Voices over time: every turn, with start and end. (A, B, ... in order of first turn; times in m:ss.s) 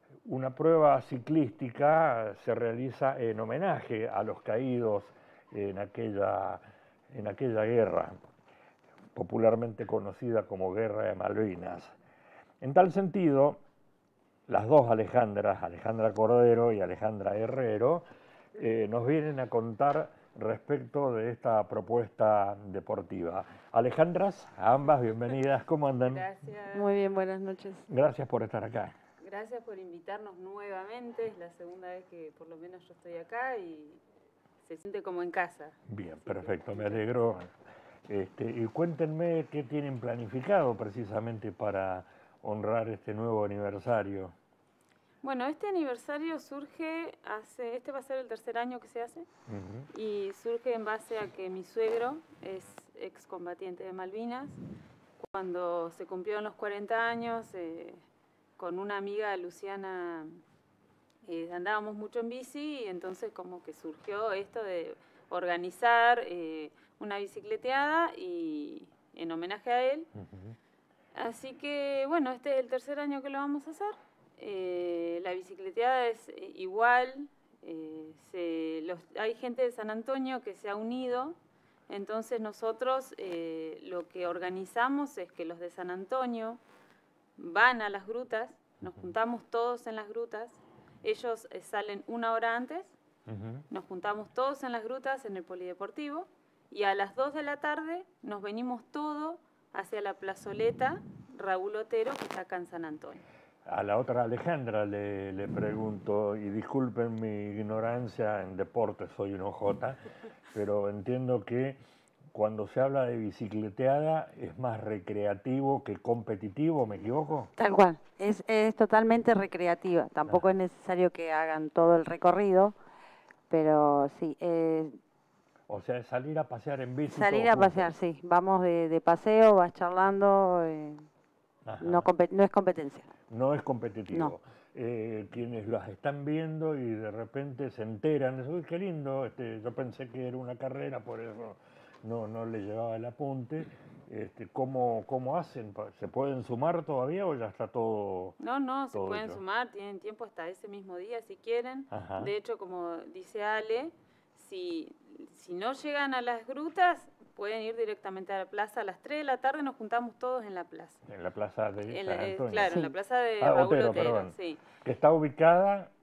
0:00.2-0:08.2 A
0:09.1-0:11.9 A
0:12.6-0:13.6 A
0:14.5-0:26.2 A
0:26.1-0:26.8 B
0:26.7-0:27.9 C
0:27.9-0:29.0 A
0:29.2-0:34.0 B
0:34.6-0:37.0 B
0:35.9-0:37.5 A
0:38.1-0:44.3 A
0:45.2-0:49.3 B
0:49.5-0:49.9 A
0:49.9-0:54.6 B
0:55.2-0:58.0 B
0:58.6-1:00.4 B
1:01.2-1:10.1 B
1:10.2-1:10.6 A
1:11.1-1:21.4 B
1:21.9-1:26.6 B
1:27.4-1:32.9 B
1:28.8-1:29.1 A
1:33.3-1:33.6 A
1:33.7-1:43.2 B
1:43.7-1:50.0 A
1:50.5-1:51.8 A
1:52.3-1:57.5 A
1:57.6-2:02.8 C
2:03.5-2:05.0 C
2:05.7-2:07.9 A
2:07.1-2:11.0 C
2:11.6-2:12.1 A
2:11.8-2:13.1 C
2:13.3-2:28.4 A
2:14.1-2:14.4 C
2:28.4-2:41.0 B
2:28.9-2:29.4 A
2:31.9-2:32.3 A
2:41.1-2:45.9 A
2:41.9-2:44.6 B